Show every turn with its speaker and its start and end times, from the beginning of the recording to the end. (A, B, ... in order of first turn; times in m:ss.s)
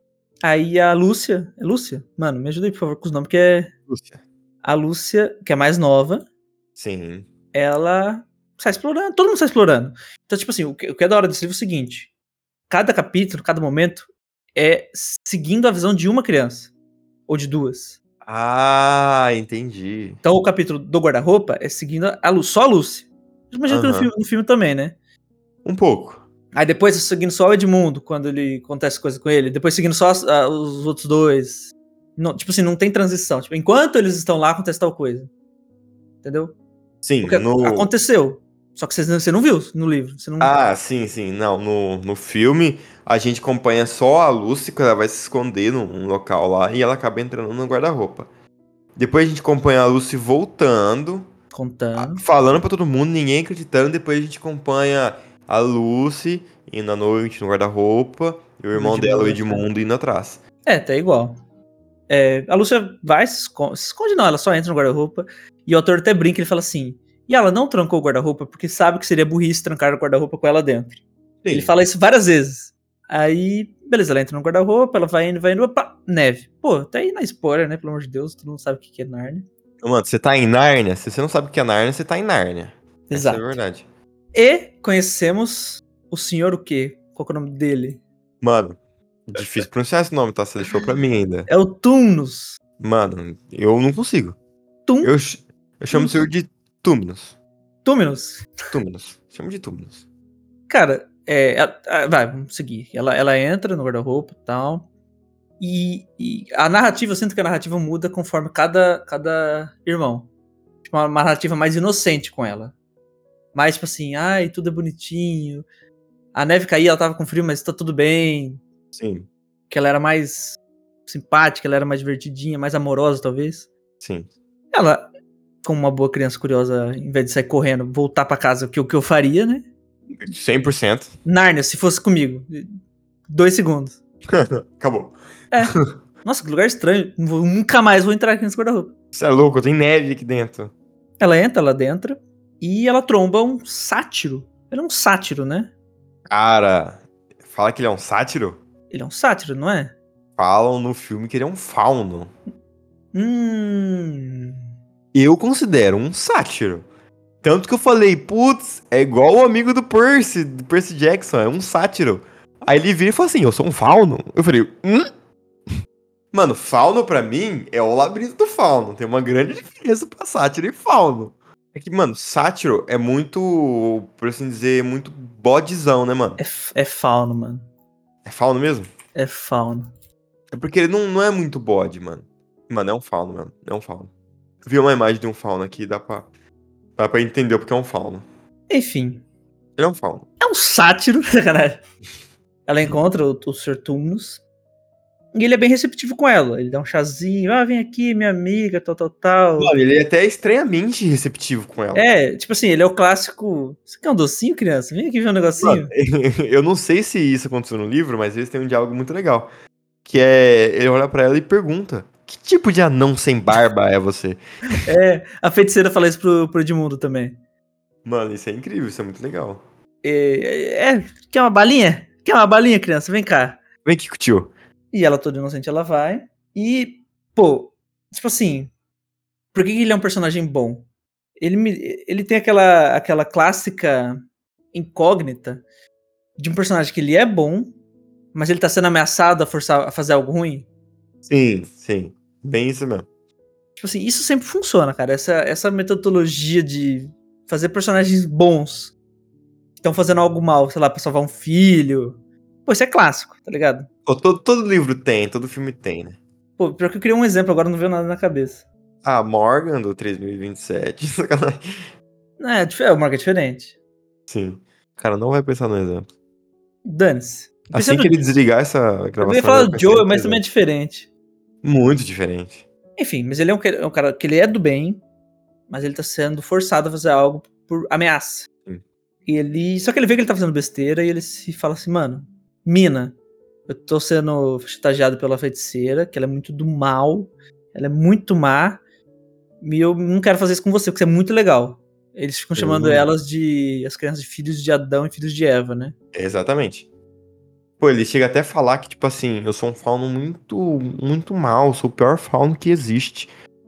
0:00.4-0:03.7 A
0:03.9-0:04.2 B
0:04.6-0:06.2 A
0:06.8-0:07.3 B
0:07.5-0:12.1 A
0:12.7-0:16.7 A
0:17.3-0:18.0 A
0:18.2-0:20.2 B
0:20.2-0:24.9 A
0:23.7-0:24.1 B
0:25.6-0:26.2 B
0:26.5-0:35.3 A
0:36.2-0:36.6 A
0:37.0-0:37.9 B
0:37.2-0:40.5 A
0:40.4-0:48.3 B
0:49.0-0:51.3 B
0:51.5-0:52.2 A
0:52.0-1:00.4 B
0:58.7-0:59.6 A
1:00.6-1:01.4 A
1:02.1-1:19.4 A
1:11.4-1:11.7 B
1:19.8-1:23.8 B
1:23.1-1:23.5 A
1:24.3-1:28.0 A
1:28.4-1:31.5 B
1:31.5-1:32.6 A
1:32.8-1:34.4 B
1:34.9-1:35.1 A
1:35.0-1:37.3 B
1:35.9-1:36.2 A
1:37.8-1:38.5 A
1:38.7-1:40.0 B
1:40.7-1:44.8 A
1:45.6-1:50.3 A
1:50.8-1:52.7 A
1:53.5-1:55.6 A
1:56.3-1:58.6 A
1:58.9-1:59.3 B
1:59.7-2:03.7 A
2:04.0-2:04.3 B
2:04.7-2:05.1 A
2:05.6-2:09.6 A
2:10.2-2:11.1 B
2:11.2-2:12.7 A
2:13.3-2:14.0 A
2:14.3-2:15.2 B
2:15.5-2:18.9 A
2:15.7-2:15.9 B
2:19.1-2:20.7 B
2:21.2-2:25.7 A
2:26.3-2:28.6 B
2:28.9-2:29.9 A
2:30.4-2:32.3 B
2:33.1-2:34.6 A
2:35.1-2:36.8 B
2:37.4-2:45.1 B
2:46.3-2:56.4 B
2:56.4-2:57.6 A
2:58.2-2:58.9 B
2:59.1-2:59.9 A
3:00.5-3:04.1 B
3:04.6-3:06.3 B
3:07.0-3:08.2 B
3:08.7-3:09.2 A
3:09.8-3:10.3 B
3:10.4-3:11.8 A
3:12.7-3:14.4 A
3:15.3-3:19.7 A
3:19.6-3:22.0 B
3:21.9-3:25.9 A
3:25.6-3:29.5 B
3:30.0-3:34.8 B
3:34.7-3:37.4 A
3:38.0-3:39.6 B
3:40.0-3:43.6 A
3:43.8-3:44.5 B
3:44.9-3:48.7 A
3:49.5-3:50.8 A
3:51.4-3:54.2 A
3:54.7-3:55.6 A
3:56.4-3:57.7 A
3:58.3-4:00.7 A
4:01.3-4:03.1 B
4:03.8-4:08.9 A
4:09.8-4:13.9 A
4:14.0-4:16.2 B
4:16.6-4:18.6 A
4:19.0-4:21.9 B
4:22.4-4:23.7 A
4:24.3-4:26.1 B
4:26.8-4:28.2 A
4:27.7-4:30.4 B
4:29.2-4:31.1 A
4:31.6-4:32.6 B
4:33.0-4:35.0 A
4:35.7-4:38.5 A
4:39.2-4:43.2 A
4:43.7-4:48.8 A
4:49.6-4:55.9 A
4:52.6-4:53.1 B
4:56.1-4:56.9 B
4:57.8-5:03.3 B